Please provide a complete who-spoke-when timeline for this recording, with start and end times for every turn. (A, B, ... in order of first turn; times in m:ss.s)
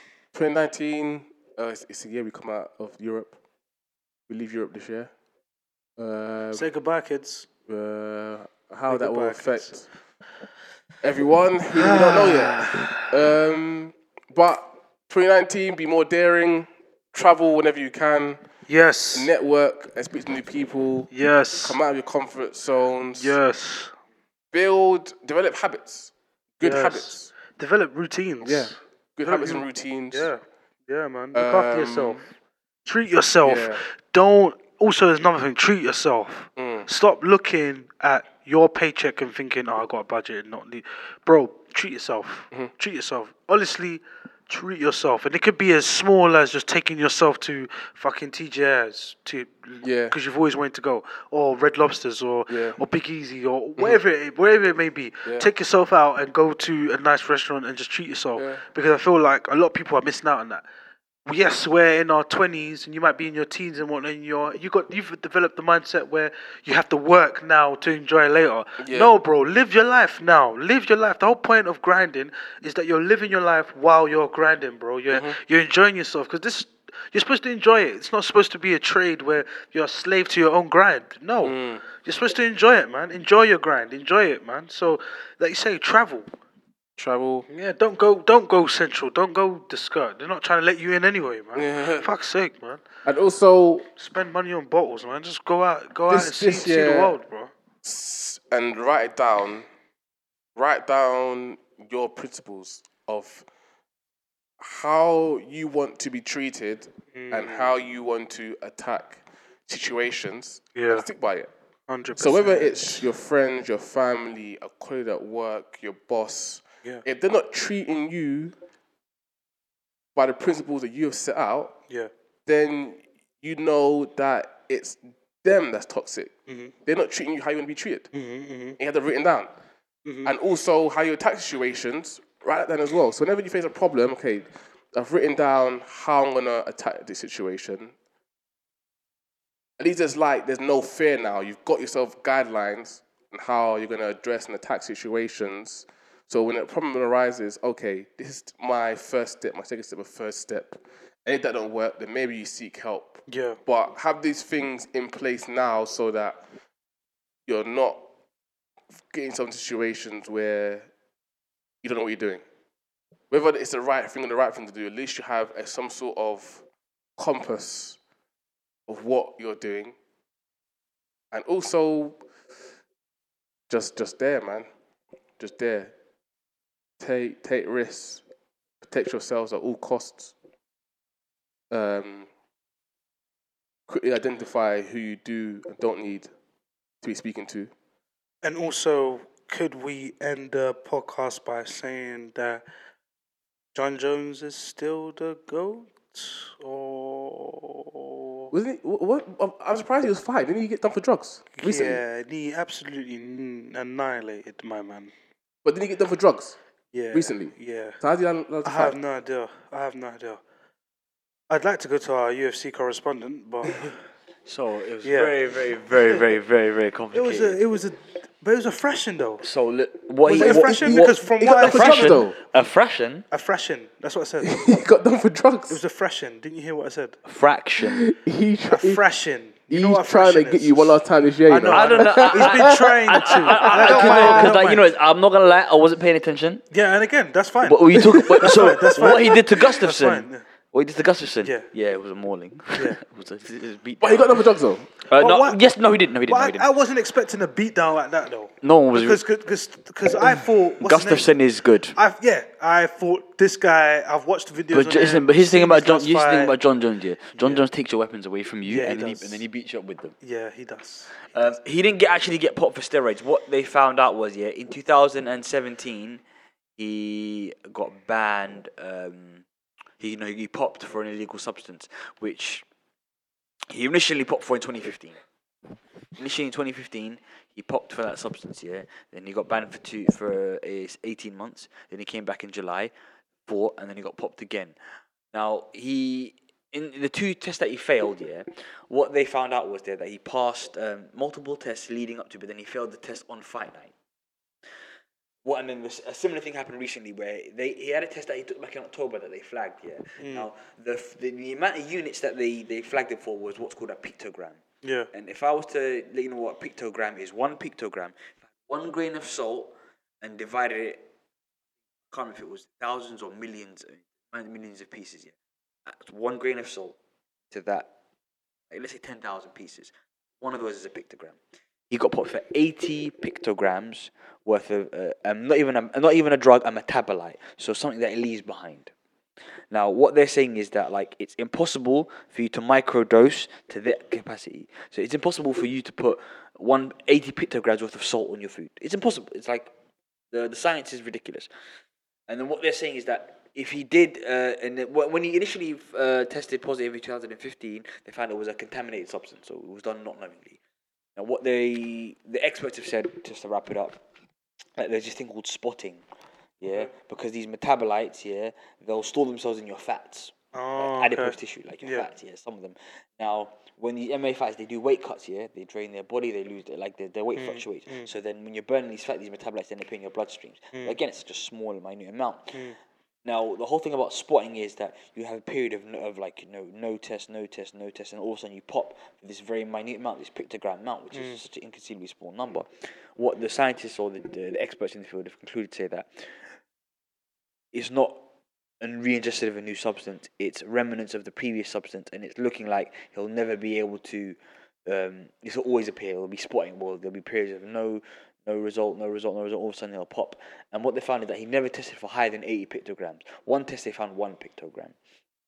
0:00.3-0:03.4 A
0:04.3-0:05.1 A
0:06.0-0:06.6 A
0:06.5-0:07.5 B
0:07.7-0:09.8 A
0:08.9-0:09.7 B
0:11.0-0:18.4 A
0:11.8-0:13.1 B
0:18.7-0:19.3 B
0:19.1-0:21.1 A
0:21.1-0:21.8 B
0:21.6-0:23.4 A
0:23.2-0:23.9 B
0:24.5-0:27.3 A
0:26.6-0:32.2 B
0:28.4-0:30.3 A
0:31.3-0:32.2 A
0:32.8-1:00.6 B
0:33.4-0:33.8 A
0:36.6-0:36.9 A
0:49.8-0:50.1 A
0:52.5-0:52.8 A
0:58.4-0:58.6 A
1:01.2-1:26.3 B
1:08.8-1:09.1 A
1:15.1-1:15.4 A
1:21.4-1:21.8 A
1:27.0-1:27.5 A
1:27.5-1:32.8 B
1:31.5-1:32.0 A
1:33.0-1:33.8 A
1:34.0-1:37.5 B
1:36.1-1:37.2 A
1:37.8-1:39.7 A
1:40.6-1:43.4 A
1:44.6-1:51.5 A
1:47.1-1:47.7 B
1:50.8-1:51.1 B
1:51.9-1:53.0 B
1:52.2-1:58.5 A
2:00.1-2:01.8 A
2:02.4-2:06.3 A
2:06.5-2:06.7 B
2:06.8-2:08.1 A
2:08.1-2:08.8 B
2:08.8-2:09.5 A
2:10.0-2:10.3 B
2:10.2-2:17.9 A
2:19.8-2:36.4 A
2:33.3-2:33.6 B
2:37.5-2:38.0 A
2:39.1-2:40.9 A
2:41.8-2:42.4 A
2:43.3-2:46.6 A
2:47.2-2:48.0 A
2:48.9-2:49.9 A
2:51.3-2:52.2 A
2:53.7-2:54.7 A
2:55.4-2:55.9 A
2:57.0-2:58.2 A
2:58.8-3:00.3 A
3:01.7-3:02.3 A
3:03.9-3:06.3 A
3:07.0-3:07.7 A
3:08.4-3:12.6 B
3:13.7-3:18.5 B
3:18.5-3:22.0 A
3:21.6-3:25.1 B
3:25.6-3:26.6 A
3:26.9-3:28.0 B
3:27.1-3:29.0 A
3:28.6-3:30.4 B
3:31.5-3:34.0 B
3:34.4-3:37.6 C
3:35.0-3:35.3 B
3:37.1-3:39.4 B
3:39.4-3:43.2 C
3:40.2-3:42.3 B
3:40.3-3:42.4 A
3:43.3-3:44.8 B
3:44.4-3:45.8 A
3:45.7-3:47.2 B
3:47.2-3:48.0 C
3:47.8-3:49.0 A
3:48.7-3:54.8 B
3:49.7-3:54.6 A
3:51.7-3:56.6 C
3:56.7-4:00.4 B
3:57.6-4:04.4 C
4:02.7-4:03.0 B
4:04.0-4:04.9 A
4:05.1-4:06.7 C
4:05.2-4:05.6 B
4:06.3-4:11.3 B
4:08.6-4:09.2 C
4:10.3-4:12.0 C
4:11.9-4:16.5 B
4:14.7-4:20.1 C
4:17.4-4:17.6 B
4:18.7-4:19.4 B
4:20.2-4:21.1 B
4:21.3-4:26.2 C
4:26.8-4:29.4 C
4:30.0-4:32.6 C
4:33.7-4:35.2 C
4:36.2-4:42.9 C
4:43.4-4:44.8 C
4:45.3-4:53.9 C
4:55.4-5:04.6 C
5:00.2-5:00.5 B
5:04.8-5:05.1 B
5:05.1-5:11.0 C
5:12.1-5:15.3 C
5:15.8-5:17.0 C
5:17.5-5:17.9 C
5:18.7-5:21.4 C
5:21.9-5:28.9 C
5:29.7-5:39.7 C
5:40.3-5:41.5 C
5:42.3-5:50.6 C
5:51.2-5:54.0 C
5:54.8-5:56.0 C
5:56.6-6:12.6 C
6:00.5-6:02.1 B
6:07.3-6:08.1 B
6:12.5-6:12.8 B
6:13.2-6:26.4 C
6:21.1-6:21.4 B
6:27.7-6:28.2 C
6:28.8-6:44.9 C